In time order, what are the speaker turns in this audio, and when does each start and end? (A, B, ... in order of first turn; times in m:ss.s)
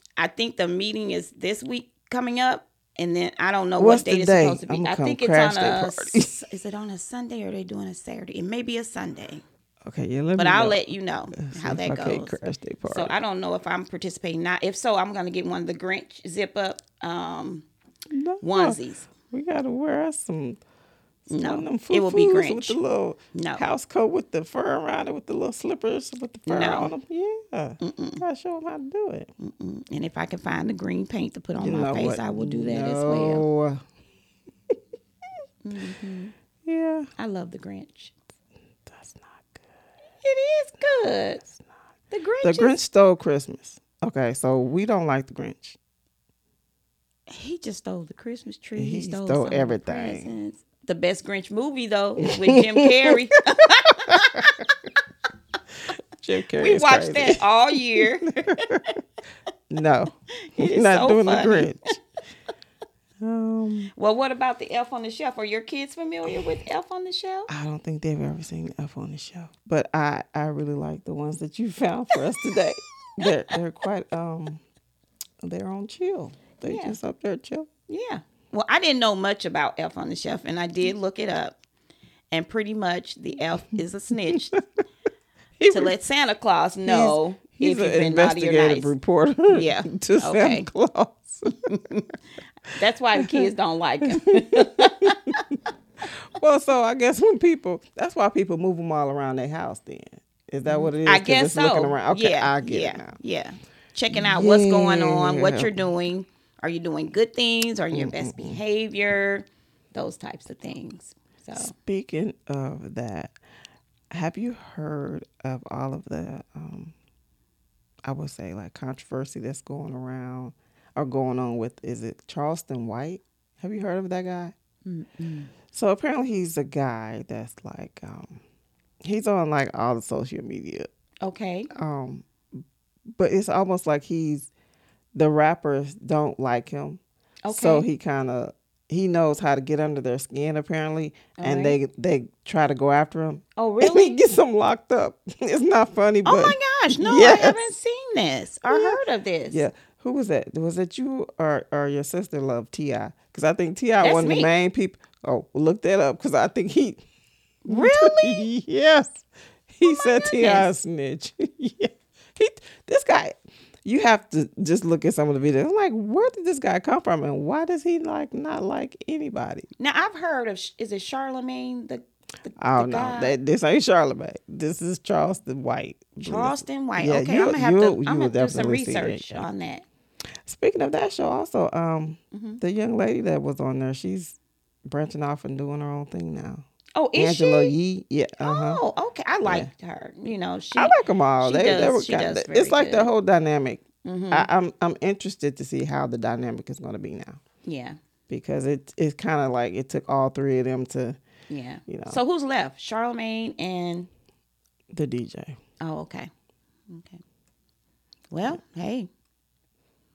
0:00.2-0:09.4 A
0:03.8-0:06.4 B
0:09.8-0:10.8 B
0:10.4-0:17.7 A
0:11.3-0:13.1 B
0:18.1-0:20.6 B
0:18.4-0:19.1 A
0:21.3-0:22.8 A
0:21.3-0:29.3 B
0:23.3-0:23.6 A
0:26.5-0:26.9 A
0:27.8-0:28.2 A
0:29.4-0:33.4 A
0:31.6-0:33.8 B
0:35.6-0:36.3 A
0:36.6-0:37.1 B
0:37.2-0:38.1 A
0:38.9-0:39.7 B
0:40.2-0:41.4 A
0:42.1-0:42.8 A
0:42.4-0:45.8 B
0:47.3-0:54.7 A
0:48.8-0:50.3 B
0:52.3-0:53.2 B
0:54.1-0:54.6 B
0:56.2-0:59.0 B
0:56.6-0:58.9 A
0:59.7-1:02.0 B
1:00.4-1:01.7 A
1:03.2-1:03.9 B
1:04.0-1:07.5 A
1:07.5-1:14.6 B
1:15.4-1:17.7 B
1:16.6-1:17.0 A
1:17.9-1:21.6 A
1:22.3-1:24.6 A
1:24.3-1:24.6 B
1:25.6-1:25.9 B
1:25.7-1:28.9 A
1:26.8-1:31.6 B
1:29.5-1:30.7 A
1:31.5-1:32.1 A
1:32.7-1:35.4 A
1:33.2-1:33.5 B
1:34.0-1:43.2 B
1:40.7-1:51.7 A
1:44.1-1:45.7 B
1:47.9-1:48.6 B
1:51.6-1:53.4 B
1:54.1-1:56.9 B
1:58.0-2:04.5 B
2:04.9-2:05.5 A
2:05.7-2:08.4 B
2:09.0-2:10.9 B
2:11.2-2:11.7 A
2:11.7-2:12.6 B
2:13.1-2:14.5 B
2:15.2-2:27.7 B
2:17.4-2:17.9 A
2:21.4-2:21.8 A
2:23.6-2:24.2 A
2:26.2-2:29.7 A
2:28.7-2:37.0 B
2:34.0-2:34.5 A
2:37.6-2:38.5 A
2:37.7-2:43.3 B
2:39.8-2:40.7 A
2:43.8-2:49.7 B
2:49.8-2:53.4 A
2:52.6-2:59.5 B
2:56.2-2:59.8 A
3:00.5-3:06.6 B
3:02.3-3:02.6 A
3:07.0-3:07.8 A
3:07.2-3:08.8 B
3:08.4-3:13.1 A
3:09.4-3:09.7 B
3:10.8-3:17.4 B
3:14.0-3:14.5 A
3:17.6-3:18.0 A
3:18.3-3:21.2 B
3:21.5-3:24.1 A
3:21.9-3:22.2 B
3:24.9-3:25.6 B
3:25.8-3:26.3 A
3:26.9-3:27.2 A
3:28.3-3:29.1 A